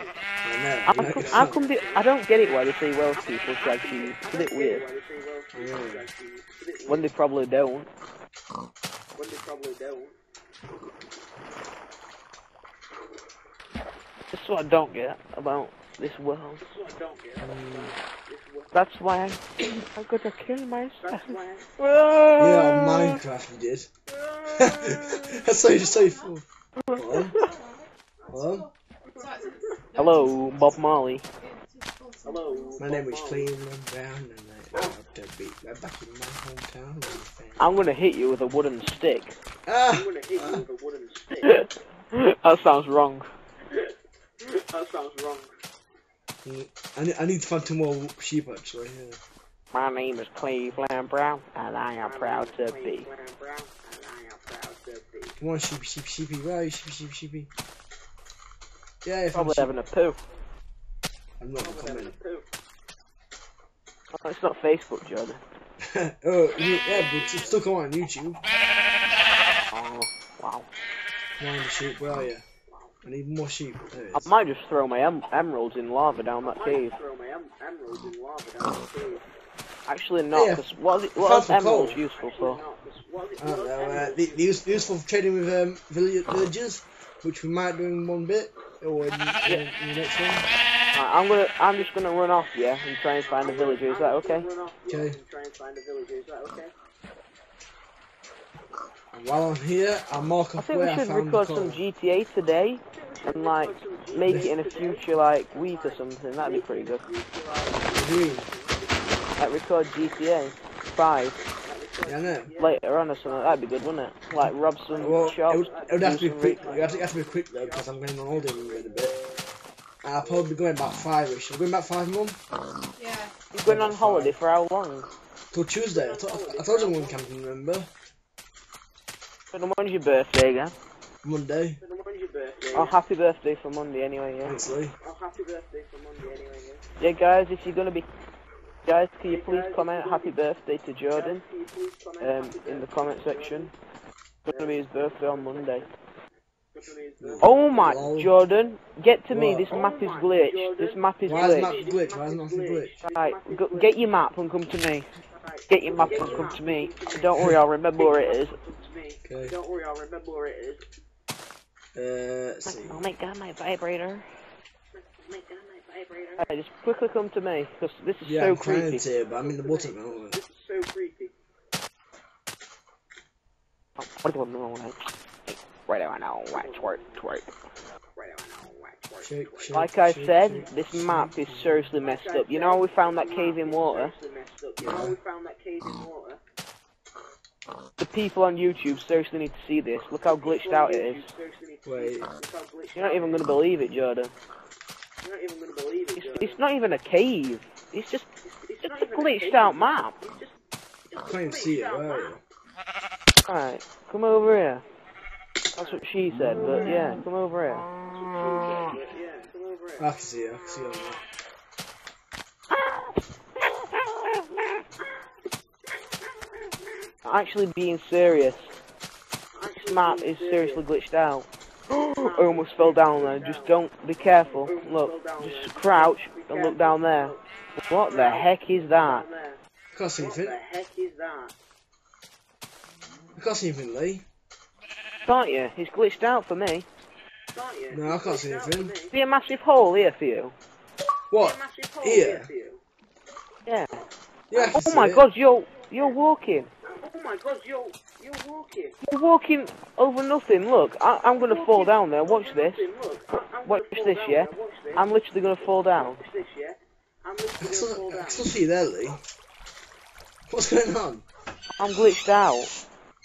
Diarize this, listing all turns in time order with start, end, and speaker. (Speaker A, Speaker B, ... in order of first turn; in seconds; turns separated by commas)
Speaker A: 0.4-1.6, Speaker B: 0.8-4.8, Speaker C: 0.9-2.1, Speaker C: 3.1-7.1, Speaker A: 5.5-6.0, Speaker B: 6.9-7.9, Speaker C: 9.2-10.1, Speaker B: 14.3-16.6, Speaker C: 16.6-18.8, Speaker A: 17.4-17.9, Speaker B: 18.7-23.2, Speaker C: 21.0-21.7, Speaker A: 22.4-23.9, Speaker C: 24.1-25.4, Speaker A: 24.4-27.4, Speaker B: 26.9-27.5, Speaker D: 27.4-27.8, Speaker A: 28.3-28.7, Speaker D: 28.4-30.3, Speaker C: 29.4-29.7, Speaker B: 29.9-31.2, Speaker D: 31.4-32.8, Speaker C: 32.2-33.5, Speaker A: 32.8-37.8, Speaker B: 37.6-39.3, Speaker A: 39.7-40.6, Speaker C: 39.9-41.5, Speaker B: 41.4-43.3, Speaker C: 44.4-45.5, Speaker A: 46.4-49.2, Speaker B: 49.7-53.1, Speaker C: 52.0-55.4, Speaker A: 55.4-57.5, Speaker A: 59.0-59.7, Speaker B: 59.3-60.2, Speaker A: 61.4-62.1, Speaker C: 61.6-62.5, Speaker B: 64.1-65.4, Speaker A: 65.8-68.4, Speaker C: 66.6-67.7, Speaker B: 69.7-70.7, Speaker A: 71.4-72.4, Speaker A: 73.0-74.3, Speaker B: 74.1-76.9, Speaker C: 76.4-79.2, Speaker B: 79.8-82.6, Speaker A: 80.3-82.0, Speaker C: 82.0-84.7, Speaker A: 83.4-90.5, Speaker B: 90.9-94.5, Speaker C: 93.2-96.7, Speaker A: 94.9-95.2, Speaker A: 99.1-101.8, Speaker B: 100.6-107.0, Speaker C: 102.9-109.5, Speaker A: 104.3-104.5, Speaker A: 107.9-108.5, Speaker B: 109.4-111.4, Speaker C: 111.6-113.7, Speaker A: 112.0-112.5, Speaker B: 112.6-116.7, Speaker C: 114.9-119.0, Speaker A: 115.0-119.1, Speaker A: 120.0-122.4, Speaker D: 123.0-123.3, Speaker B: 123.5-125.1, Speaker A: 123.6-124.3, Speaker A: 125.5-127.9, Speaker C: 125.9-127.3, Speaker B: 129.5-130.7, Speaker A: 131.2-131.8, Speaker C: 131.8-133.0, Speaker B: 132.7-134.6, Speaker A: 134.4-134.9, Speaker C: 135.0-136.8, Speaker B: 137.0-138.1, Speaker B: 138.8-141.4, Speaker C: 139.2-140.4, Speaker C: 141.1-143.7, Speaker B: 142.2-143.7, Speaker B: 144.4-145.9, Speaker C: 144.5-145.9, Speaker C: 146.7-148.0, Speaker A: 147.2-148.3, Speaker B: 147.4-151.8, Speaker A: 149.3-149.7, Speaker C: 149.7-153.9, Speaker A: 151.2-153.0, Speaker B: 153.1-155.1, Speaker C: 155.3-160.8, Speaker B: 155.7-158.6, Speaker A: 155.9-156.6, Speaker A: 159.2-159.6, Speaker A: 161.9-163.0, Speaker B: 162.7-164.2, Speaker C: 164.9-166.4, Speaker B: 166.4-169.0, Speaker A: 168.2-170.4, Speaker C: 169.0-171.3, Speaker B: 174.0-177.5, Speaker C: 176.5-177.2, Speaker C: 178.2-179.9, Speaker A: 179.2-181.8, Speaker B: 179.7-184.1, Speaker C: 182.0-186.4, Speaker A: 184.8-185.2, Speaker B: 188.0-191.3, Speaker C: 190.2-193.5, Speaker A: 191.8-192.3, Speaker B: 192.9-194.3, Speaker C: 195.2-196.6, Speaker B: 196.2-198.3, Speaker C: 198.5-200.5, Speaker B: 198.8-200.2, Speaker C: 201.1-202.4, Speaker A: 201.2-202.4, Speaker B: 203.4-204.8, Speaker B: 205.7-207.9, Speaker C: 205.8-206.0, Speaker C: 208.1-210.1, Speaker A: 210.0-211.2, Speaker B: 212.7-213.1, Speaker B: 213.7-214.6, Speaker B: 217.2-218.7, Speaker C: 219.5-220.8, Speaker B: 219.8-229.2, Speaker C: 222.1-223.8, Speaker C: 224.5-227.4, Speaker C: 228.1-229.6, Speaker A: 229.9-230.6, Speaker C: 230.2-231.5, Speaker A: 233.3-234.2, Speaker B: 235.2-236.9, Speaker C: 237.5-239.1, Speaker A: 237.9-238.9, Speaker B: 239.1-240.5, Speaker A: 241.3-242.5, Speaker C: 241.4-242.8, Speaker B: 243.7-244.0, Speaker A: 244.5-245.2, Speaker C: 244.5-244.8, Speaker B: 244.7-246.7, Speaker C: 246.9-249.0, Speaker B: 249.0-252.8, Speaker C: 251.3-258.5, Speaker B: 253.6-256.2, Speaker A: 257.6-259.2, Speaker A: 260.5-261.2, Speaker B: 261.8-262.7